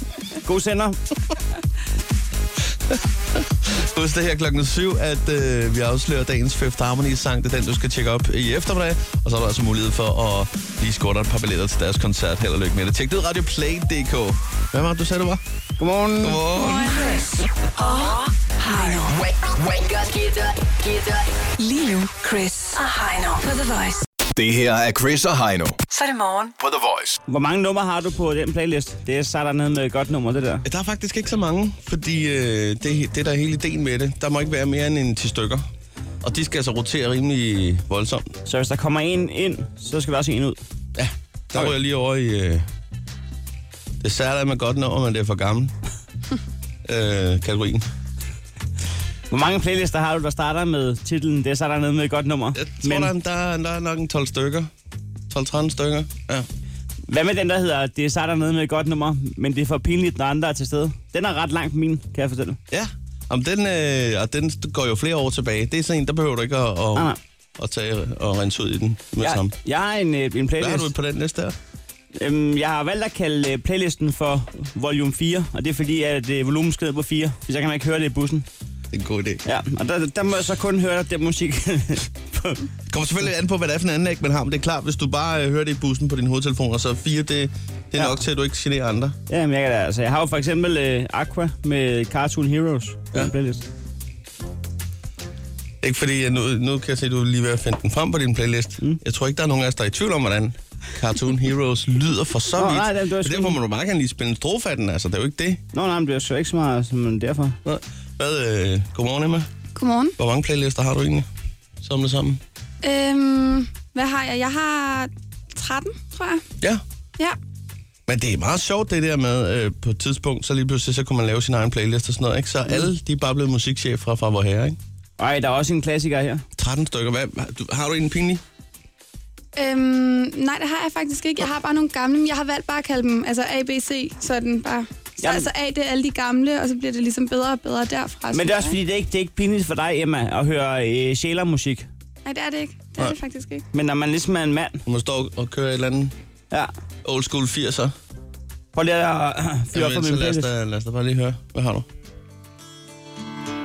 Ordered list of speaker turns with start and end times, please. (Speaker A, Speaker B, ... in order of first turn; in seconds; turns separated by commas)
Speaker A: 0.4-1.0, Speaker B: 2.9-15.4, Speaker A: 15.8-16.4, Speaker B: 16.2-17.1, Speaker C: 17.8-18.2, Speaker D: 17.8-19.1, Speaker C: 18.7-21.3, Speaker D: 21.6-24.0, Speaker E: 24.3-25.8, Speaker D: 25.9-26.5, Speaker E: 26.6-27.2, Speaker A: 27.3-30.6, Speaker B: 30.6-35.6, Speaker B: 36.2-38.3, Speaker A: 38.5-40.6, Speaker B: 40.9-42.7, Speaker B: 44.0-45.7, Speaker B: 46.8-47.9, Speaker A: 49.3-53.1, Speaker B: 52.5-54.7, Speaker B: 55.3-56.5, Speaker A: 57.1-62.6, Speaker B: 62.7-69.5, Speaker A: 69.2-70.9, Speaker B: 70.6-71.5, Speaker A: 72.2-78.5, Speaker B: 78.9-79.4, Speaker A: 79.4-82.6, Speaker B: 82.9-89.2, Speaker A: 89.3-93.7, Speaker B: 95.8-105.6, Speaker A: 102.5-103.6, Speaker A: 105.7-107.6, Speaker B: 107.6-109.5, Speaker F: 109.7-110.1, Speaker B: 110.2-111.3, Speaker B: 111.8-112.4, Speaker F: 112.8-116.4, Speaker B: 118.1-124.8, Speaker A: 125.2-126.4, Speaker B: 126.6-128.4, Speaker F: 129.6-138.8, Speaker A: 135.2-135.5, Speaker A: 138.3-141.9, Speaker F: 142.2-143.6, Speaker A: 143.7-144.8, Speaker B: 144.8-146.1, Speaker B: 147.0-147.9, Speaker A: 148.7-150.5, Speaker B: 149.7-151.9